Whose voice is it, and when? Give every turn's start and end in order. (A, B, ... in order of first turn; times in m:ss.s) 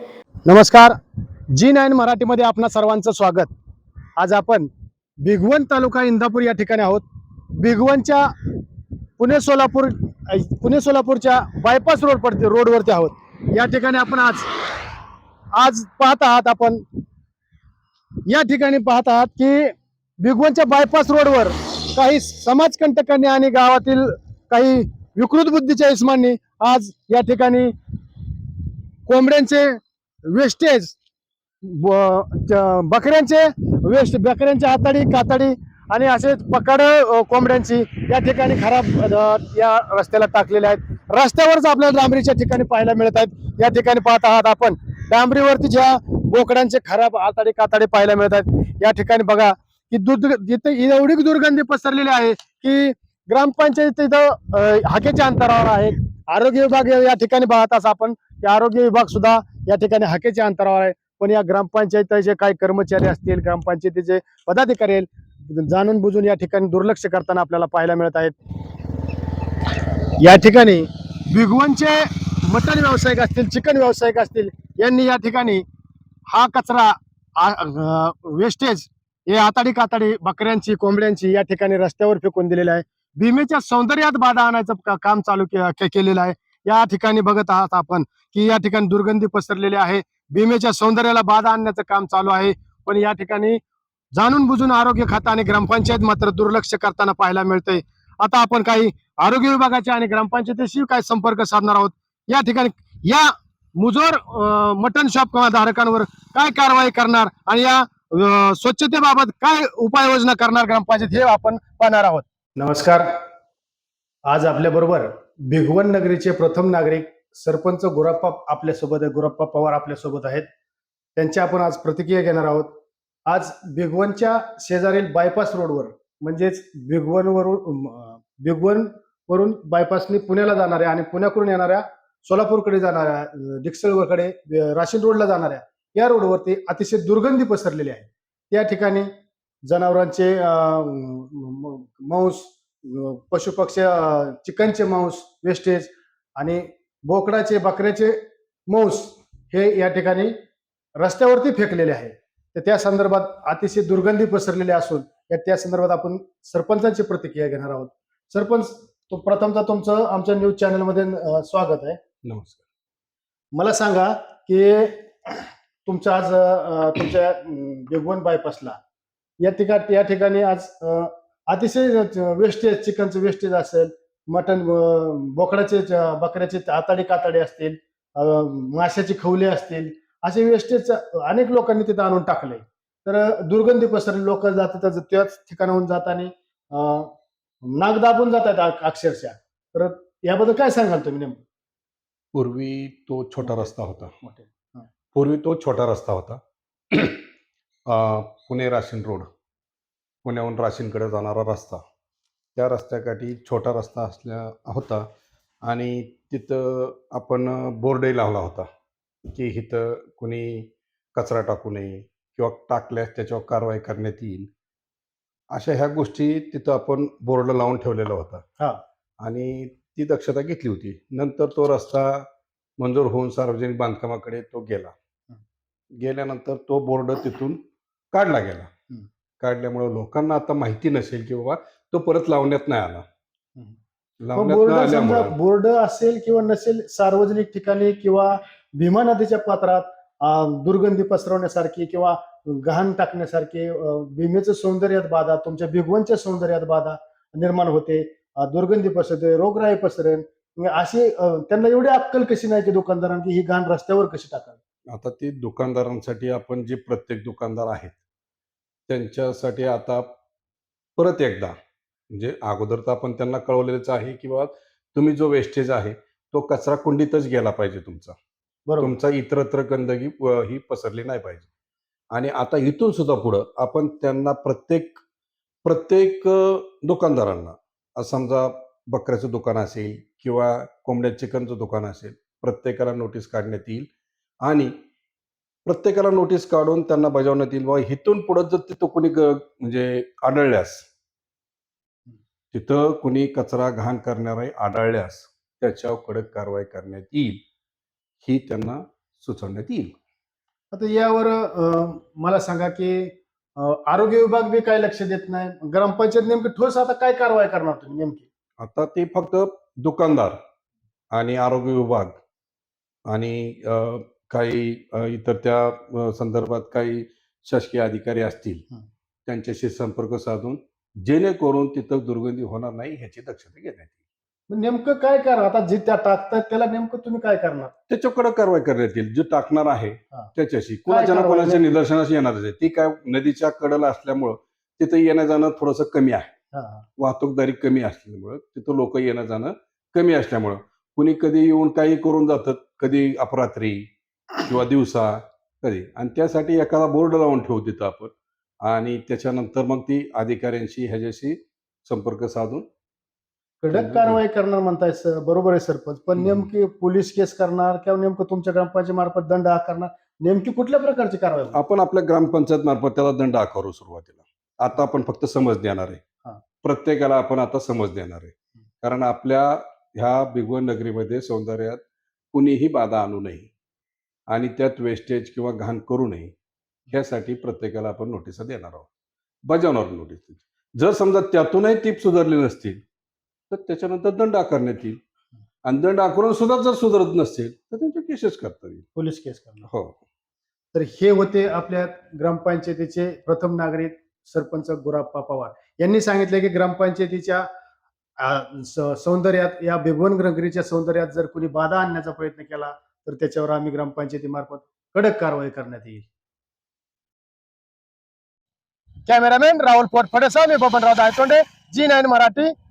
0:00.5-0:01.0 A
0:01.5-0:03.5 A
0:04.2-0:04.7 A
0:05.2-0:07.0 A
0:07.6-0:08.3 A
0:09.2-0:14.5 A
0:15.5-0:16.8 A
0:18.3-0:27.7 A
0:29.1-0:29.8 A
0:30.3-0:31.0 A
0:31.6-1:08.4 A
1:10.2-1:15.6 A
1:16.3-1:33.6 A
1:34.1-1:53.1 A
1:54.3-2:00.5 A
2:01.2-2:02.7 A
2:03.3-2:19.1 A
2:19.7-2:30.3 A
2:31.0-2:42.0 A
2:42.2-2:42.6 B
2:43.5-2:48.8 A
2:49.4-3:07.1 A
3:07.7-3:11.4 A
3:12.3-3:14.1 B
3:13.4-3:14.9 A
3:15.1-3:16.4 B
3:16.9-3:17.2 B
3:17.9-3:19.3 B
3:20.2-3:21.8 B
3:22.6-3:25.1 B
3:25.6-3:28.7 B
3:29.3-3:34.5 B
3:35.5-3:38.4 B
3:39.2-3:42.3 B
3:42.8-3:44.9 B
3:46.0-3:47.6 B
3:48.1-3:48.7 B
3:49.4-3:53.0 B
3:54.2-3:55.4 B
3:54.4-4:14.6 A
4:14.9-4:18.0 B
4:18.9-4:20.2 B
4:21.0-4:21.6 B
4:22.1-4:28.2 B
4:28.7-4:28.9 A
4:28.8-4:31.5 B
4:32.1-4:35.0 B
4:35.6-4:43.9 B
4:44.4-4:44.7 B
4:45.7-4:50.9 B
4:52.5-4:57.4 B
4:58.2-4:59.9 B
5:00.7-5:08.3 A
5:08.6-5:10.4 B
5:11.1-5:12.2 B
5:13.1-5:18.6 B
5:19.3-5:23.9 B
5:24.5-5:27.7 A
5:27.9-5:36.3 B
5:30.9-5:31.7 A
5:36.5-5:36.8 A
5:37.0-5:52.7 B
5:53.6-6:01.6 A
5:53.7-5:54.2 B
5:56.2-5:56.4 B
6:01.5-6:06.0 B
6:06.6-6:11.8 B
6:12.3-6:13.5 B
6:14.3-6:16.3 B
6:16.9-6:18.9 B
6:19.5-6:22.8 B
6:23.5-6:25.0 B
6:25.6-6:28.9 B
6:29.0-6:29.7 A
6:29.7-6:30.0 B
6:30.7-6:37.5 A
6:38.2-6:46.0 A
6:49.1-6:52.5 A